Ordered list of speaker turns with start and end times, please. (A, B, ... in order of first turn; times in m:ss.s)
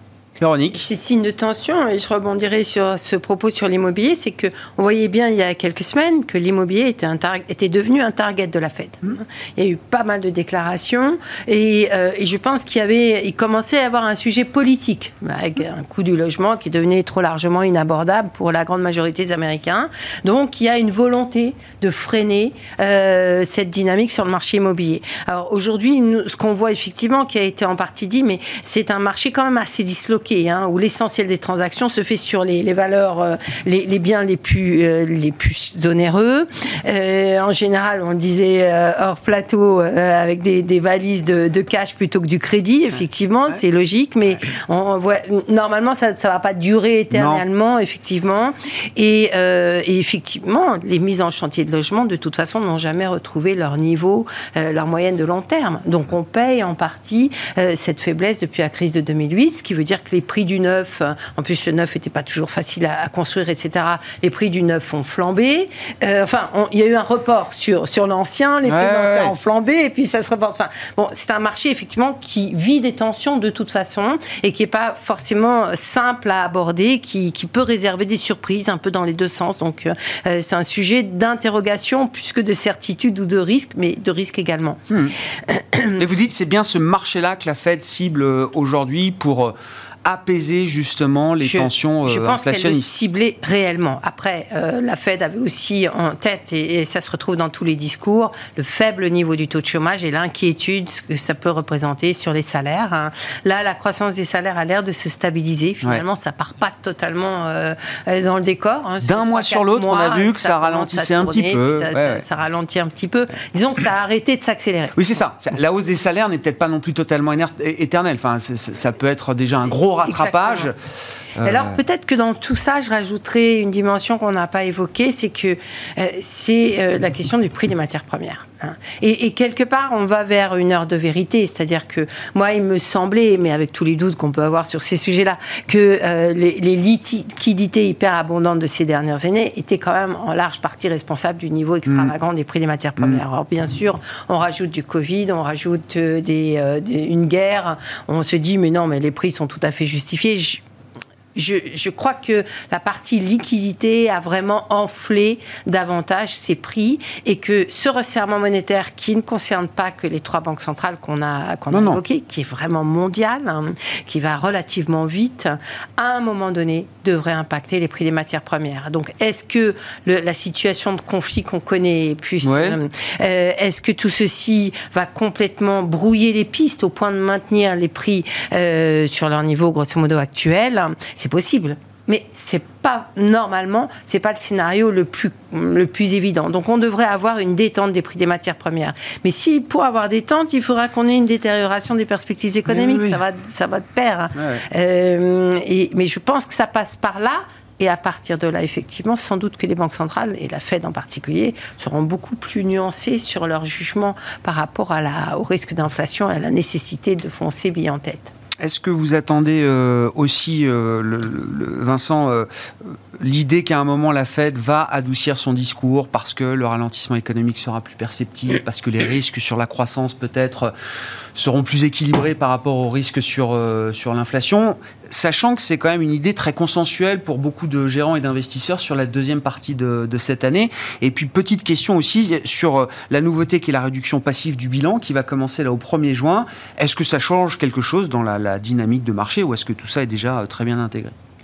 0:00.4-0:00.9 A
0:00.8-1:24.8 B
0:47.1-0:47.4 A
1:08.6-1:09.3 A
1:24.9-1:25.1 A
1:25.4-1:26.0 B
1:26.0-1:33.0 A
1:31.4-1:55.0 B
1:49.0-1:52.2 A
1:55.0-2:00.8 A
2:00.0-2:00.7 B
2:01.4-2:01.8 A
2:01.4-2:30.6 B
2:21.8-2:22.1 A
2:31.3-3:28.3 B
2:41.7-2:42.0 A
2:52.4-2:52.8 A
3:12.7-3:13.2 A
3:14.3-3:14.6 A
3:28.6-3:40.7 A
3:41.3-4:01.1 A